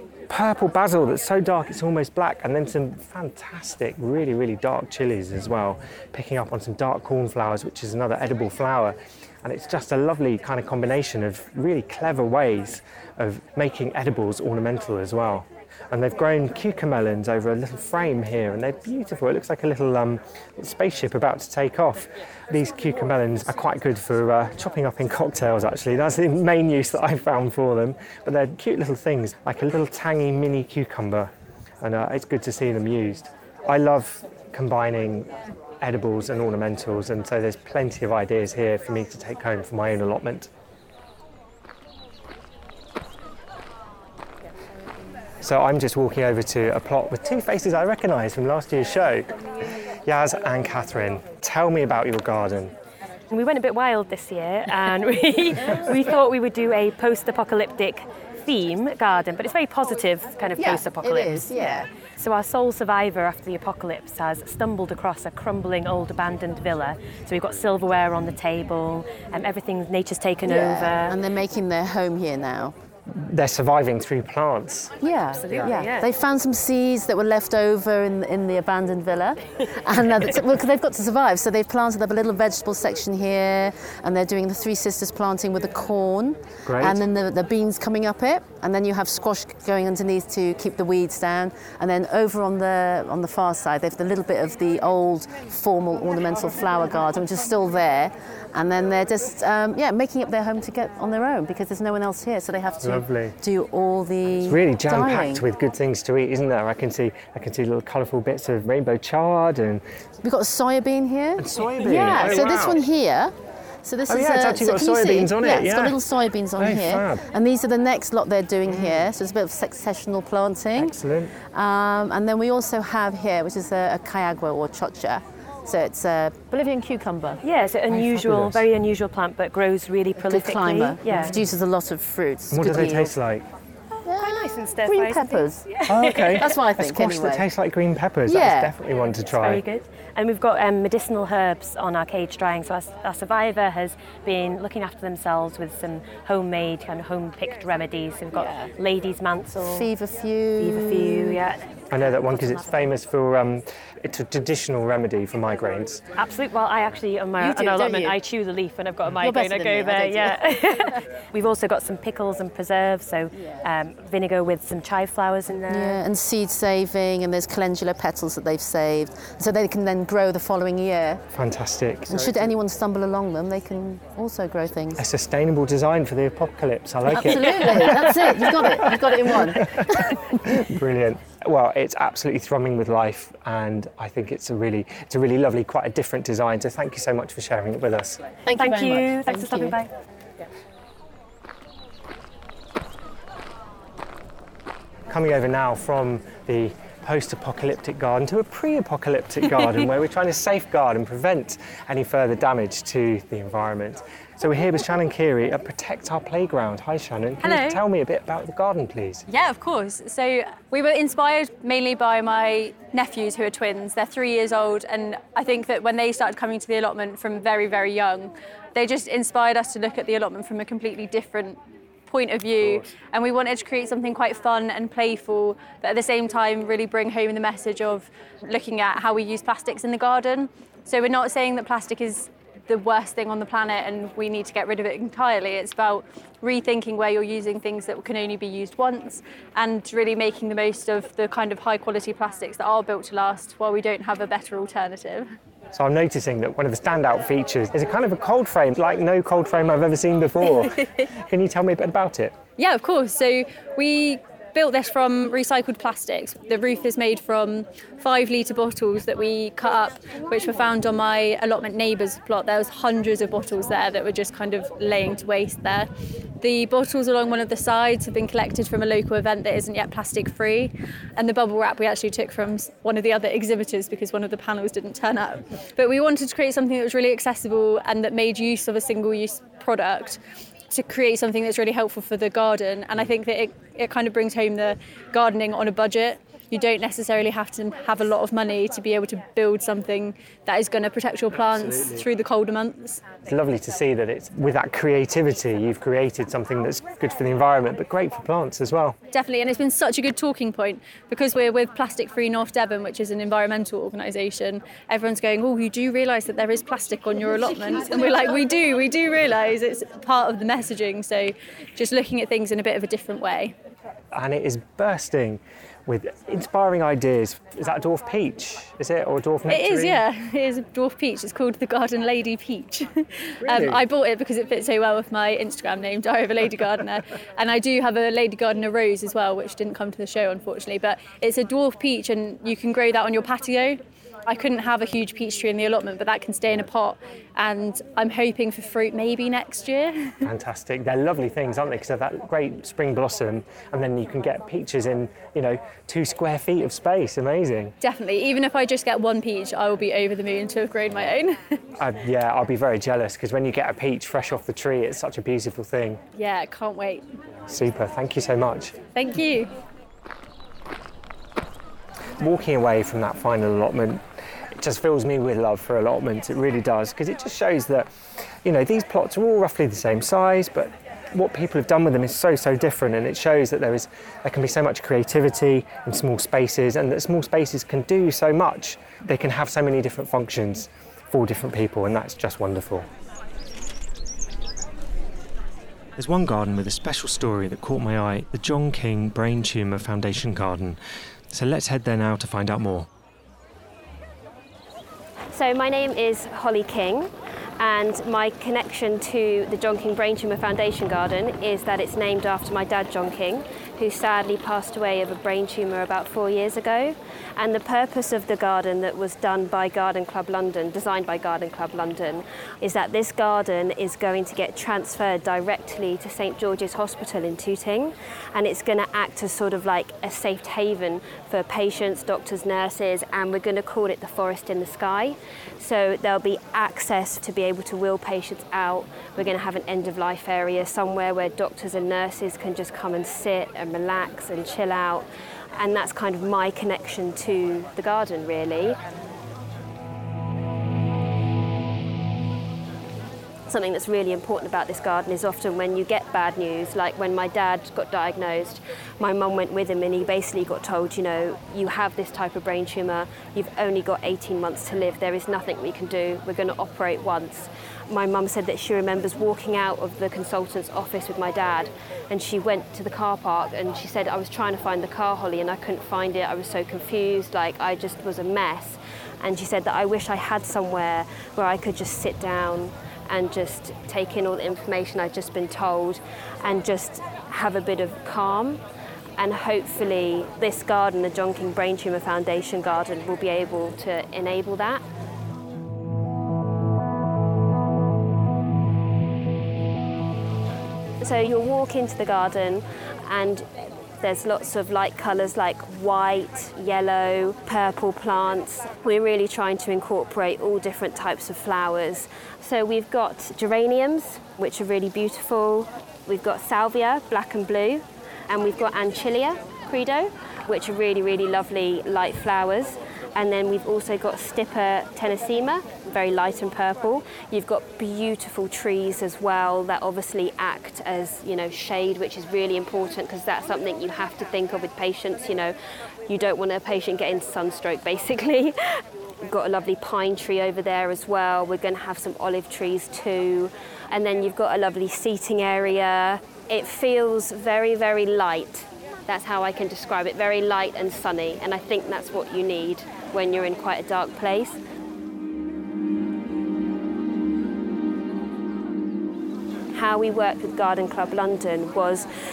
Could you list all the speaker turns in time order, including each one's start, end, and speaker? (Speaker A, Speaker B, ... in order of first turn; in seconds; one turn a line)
Speaker A: 0.3-35.3
Speaker A: 35.8-40.5
Speaker A: 45.4-49.4
Speaker A: 50.0-52.8
Speaker B: 53.3-71.2
Speaker C: 60.6-61.9
Speaker C: 70.4-72.7
Speaker A: 73.1-75.0
Speaker C: 75.0-105.5
Speaker B: 75.3-76.1
Speaker A: 86.6-87.0
Speaker A: 102.8-103.4
Speaker A: 104.4-109.8
Speaker C: 110.2-127.4
Speaker A: 111.4-112.8
Speaker A: 114.1-116.0
Speaker A: 116.5-117.2
Speaker A: 118.7-119.1
Speaker A: 120.7-121.3
Speaker B: 127.4-131.3
Speaker A: 127.9-128.6
Speaker C: 130.2-133.1
Speaker A: 131.1-131.4
Speaker A: 132.5-133.4
Speaker B: 134.0-136.6
Speaker C: 134.1-135.7
Speaker A: 135.9-139.6
Speaker C: 136.3-137.4
Speaker C: 138.2-138.7
Speaker B: 139.3-149.9
Speaker C: 148.3-148.7
Speaker C: 149.5-151.4
Speaker B: 150.6-152.9
Speaker A: 151.9-156.1
Speaker B: 156.1-166.0
Speaker C: 157.4-158.2
Speaker C: 159.2-160.6
Speaker C: 165.7-171.2
Speaker A: 171.3-172.5
Speaker C: 172.1-175.0
Speaker A: 175.0-188.2
Speaker C: 177.1-180.6
Speaker C: 188.4-189.8
Speaker B: 188.5-189.9
Speaker A: 195.1-209.2
Speaker D: 207.4-207.8
Speaker D: 209.3-245.3
Speaker A: 245.7-252.4
Speaker D: 252.6-265.9
Speaker D: 266.4-293.1
Speaker A: 291.4-292.0
Speaker A: 293.2-299.0
Speaker D: 299.1-313.5
Speaker A: 314.1-320.0
Speaker D: 319.5-340.2
Speaker A: 323.4-323.8
Speaker A: 340.2-347.7
Speaker D: 347.8-351.6
Speaker A: 351.8-356.0
Speaker D: 356.1-357.0
Speaker A: 357.5-358.8
Speaker D: 358.9-359.5
Speaker A: 362.2-367.9
Speaker A: 368.4-382.9
Speaker A: 385.9-390.8
Speaker A: 391.3-392.9
Speaker E: 395.3-438.8
Speaker E: 443.5-478.6
Speaker E: 479.2-484.8
Speaker E: 491.0-493.4
Speaker E: 494.0-525.5
Speaker E: 526.1-528.5
Speaker E: 529.2-544.6
Speaker E: 549.7-552.1